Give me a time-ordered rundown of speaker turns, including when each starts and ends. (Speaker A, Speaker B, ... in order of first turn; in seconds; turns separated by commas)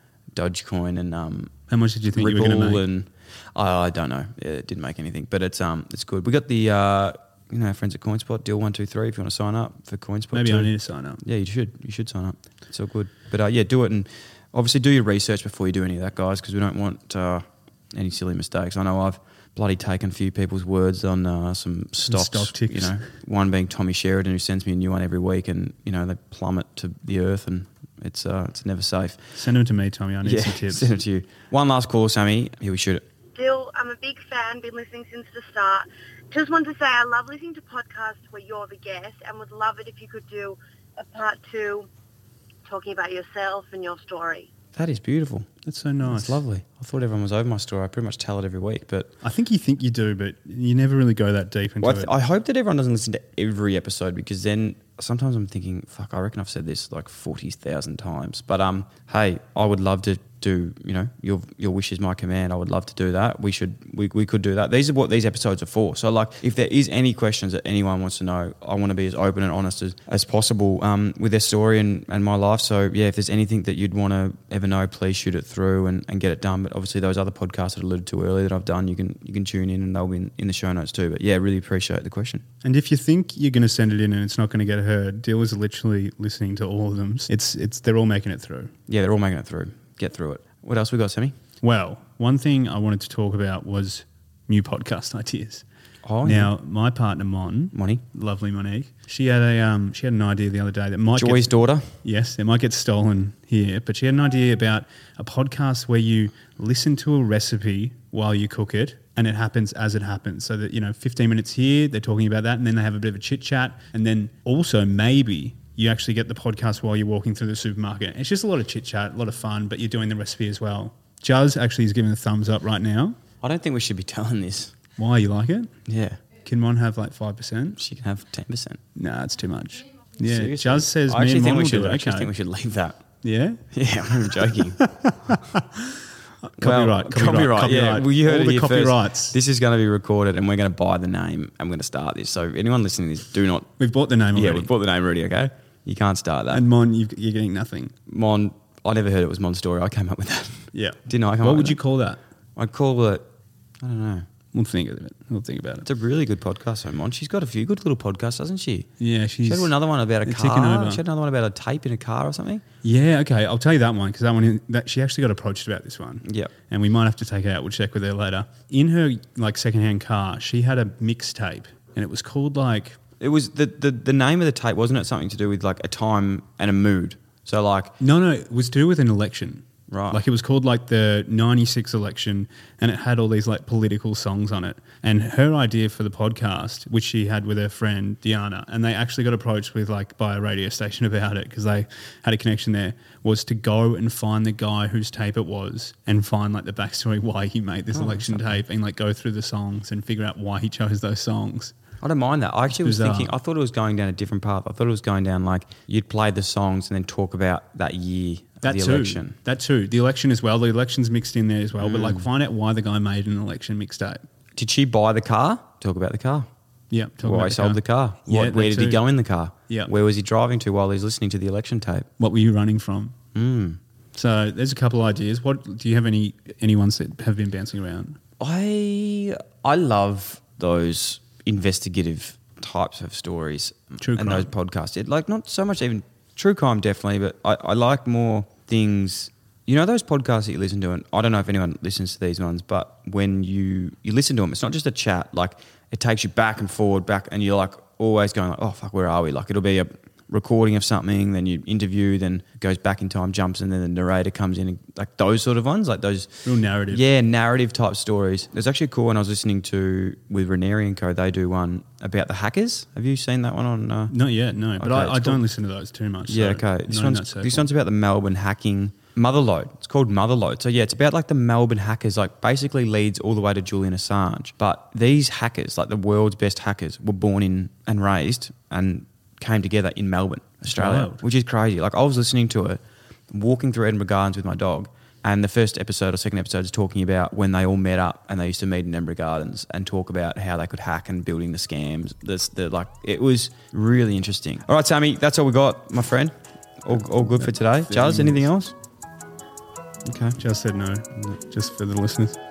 Speaker A: 0.3-1.6, Speaker B: 1.7-2.9, Speaker A: 2.1-29.3, Speaker B: 10.3-11.2, Speaker B: 22.1-23.1, Speaker B: 29.3-30.9, Speaker A: 30.2-33.0, Speaker C: 33.4-41.9, Speaker C: 42.6-44.5, Speaker A: 44.8-45.5, Speaker B: 45.6-46.4, Speaker A: 46.0-49.1, Speaker B: 49.2-52.1, Speaker A: 51.8-82.4, Speaker B: 82.6-88.7, Speaker A: 88.9-91.3, Speaker B: 91.6-95.7, Speaker A: 96.0-96.5, Speaker B: 96.2-123.2, Speaker A: 97.7-98.0, Speaker A: 101.2-101.9, Speaker A: 123.4-124.8, Speaker B: 125.0-125.7, Speaker A: 125.9-126.2, Speaker B: 126.4-127.8, Speaker A: 127.8-128.8, Speaker B: 129.0-132.3, Speaker A: 130.2-133.1, Speaker B: 133.2-133.7, Speaker A: 133.7-134.8, Speaker B: 134.3-139.4, Speaker A: 136.6-143.8, Speaker B: 143.8-144.7, Speaker A: 144.3-146.6, Speaker B: 146.5-147.9, Speaker A: 148.1-151.8, Speaker B: 150.7-152.2, Speaker A: 152.6-153.2, Speaker A: 153.8-154.3, Speaker B: 154.5-155.9, Speaker A: 155.8-158.9, Speaker B: 159.0-161.0, Speaker A: 159.4-162.6, Speaker B: 162.8-173.0, Speaker A: 166.2-166.5, Speaker A: 173.2-178.0, Speaker B: 178.0-201.8, Speaker A: 179.9-180.2, Speaker A: 197.9-198.6, Speaker A: 202.0-209.4, Speaker B: 202.7-203.3, Speaker B: 208.6-214.2, Speaker A: 211.8-212.3, Speaker A: 214.6-216.5, Speaker B: 216.9-219.0, Speaker A: 217.2-222.1, Speaker B: 222.2-223.2, Speaker A: 223.3-223.8, Speaker B: 224.1-228.2, Speaker A: 228.4-264.1, Speaker B: 234.0-234.5, Speaker B: 256.4-257.0, Speaker B: 264.1-267.7, Speaker A: 264.8-265.4, Speaker A: 266.3-298.8, Speaker B: 280.7-281.2, Speaker B: 297.4-298.5, Speaker A: 300.1-300.4, Speaker B: 300.4-302.4